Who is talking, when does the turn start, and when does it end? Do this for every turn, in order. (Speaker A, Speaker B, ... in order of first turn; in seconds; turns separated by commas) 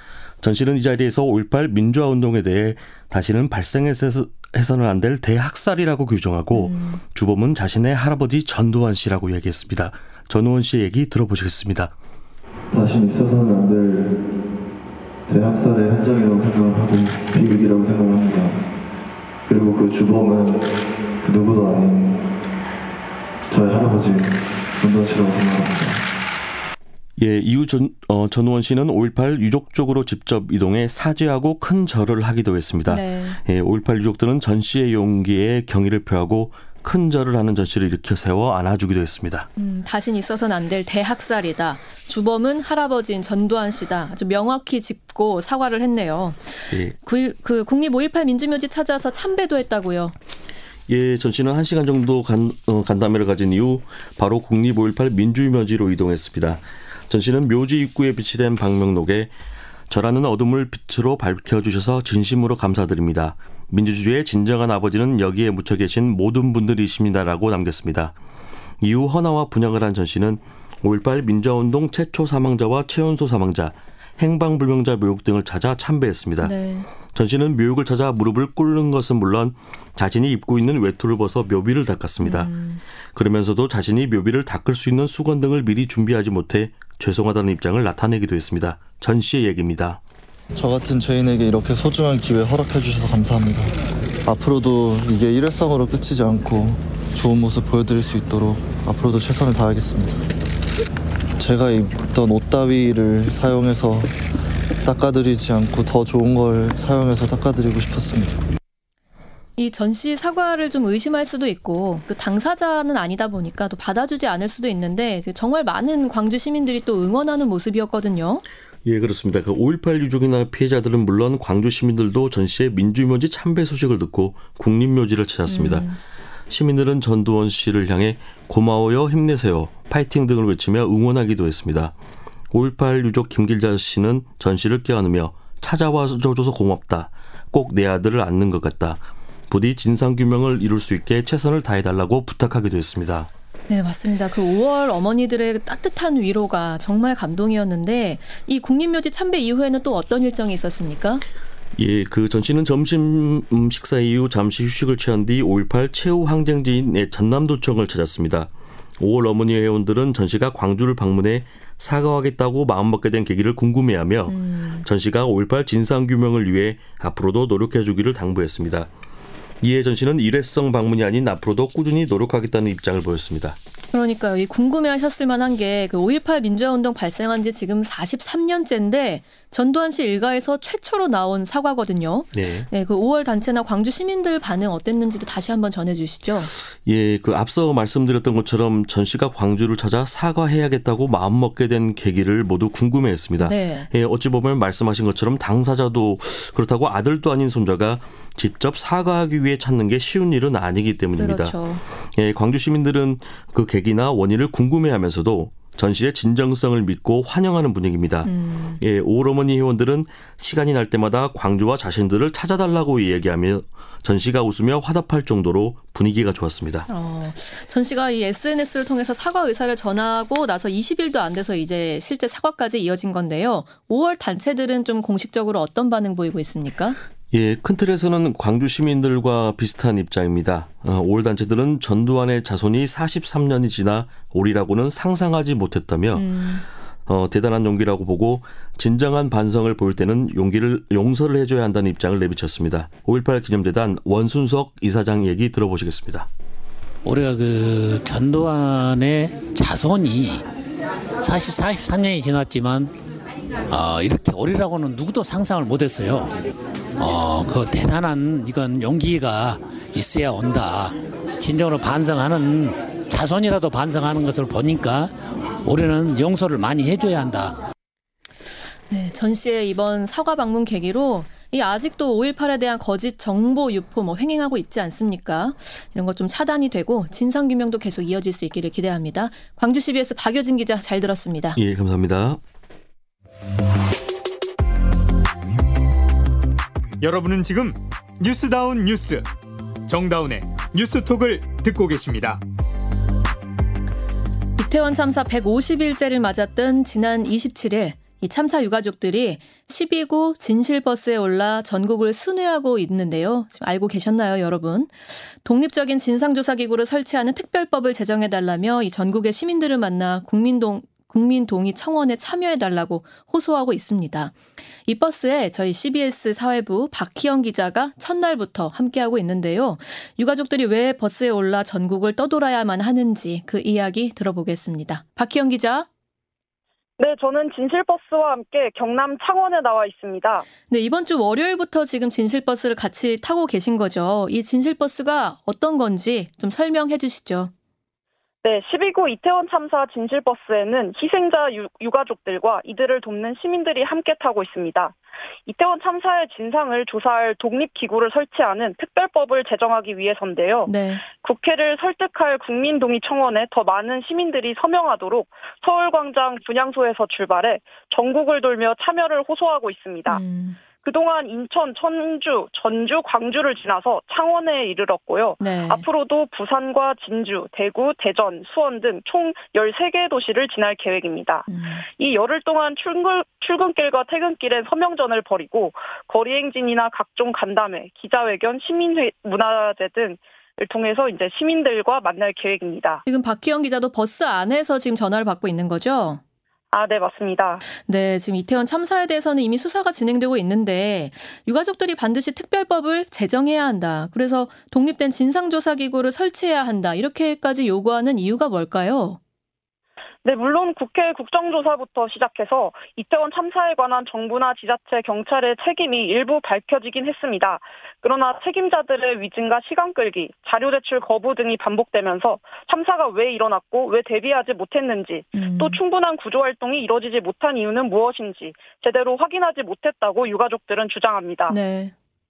Speaker A: 0.4-11.9, Speaker B: 6.5-7.0, Speaker C: 12.7-14.2, Speaker C: 15.3-18.6, Speaker C: 19.5-22.3, Speaker C: 23.5-26.0, Speaker A: 27.2-39.5, Speaker B: 32.9-33.4, Speaker B: 39.6-50.1, Speaker A: 46.7-47.0, Speaker A: 50.9-59.3, Speaker A: 59.9-68.2, Speaker A: 68.8-76.6, Speaker B: 76.4-76.9, Speaker A: 77.1-82.5, Speaker B: 82.2-82.8, Speaker A: 83.1-90.0, Speaker C: 90.5-100.2, Speaker C: 101.4-104.2, Speaker C: 104.8-108.5, Speaker B: 109.6-118.4, Speaker A: 118.8-125.9, Speaker B: 125.5-126.0, Speaker A: 126.5-131.9, Speaker A: 132.5-143.3, Speaker B: 143.7-151.2, Speaker A: 151.8-168.9, Speaker B: 164.3-164.8, Speaker A: 169.6-173.6, Speaker B: 173.9-186.5, Speaker A: 182.3-182.7, Speaker A: 186.8-216.9, Speaker B: 193.4-193.9, Speaker B: 201.2-201.8, Speaker B: 208.2-208.8, Speaker B: 216.9-227.0, Speaker A: 227.3-236.3, Speaker B: 236.2-236.7, Speaker A: 237.1-246.3, Speaker D: 247.0-250.4, Speaker D: 251.2-252.9, Speaker D: 253.7-256.4, Speaker D: 257.0-267.6, Speaker B: 268.9-281.6, Speaker A: 281.6-282.4, Speaker E: 287.0-289.2, Speaker E: 289.9-292.4, Speaker B: 294.6-325.9, Speaker F: 327.0-330.5, Speaker B: 330.7-337.5, Speaker F: 338.4-360.2, Speaker B: 350.7-351.1, Speaker B: 360.1-360.6, Speaker F: 360.8-383.0, Speaker B: 365.4-365.8, Speaker B: 371.5-371.9, Speaker B: 383.1-386.2, Speaker F: 386.7-387.6, Speaker B: 387.7-399.2, Speaker F: 400.2-421.6, Speaker B: 415.4-415.8, Speaker B: 421.5-421.9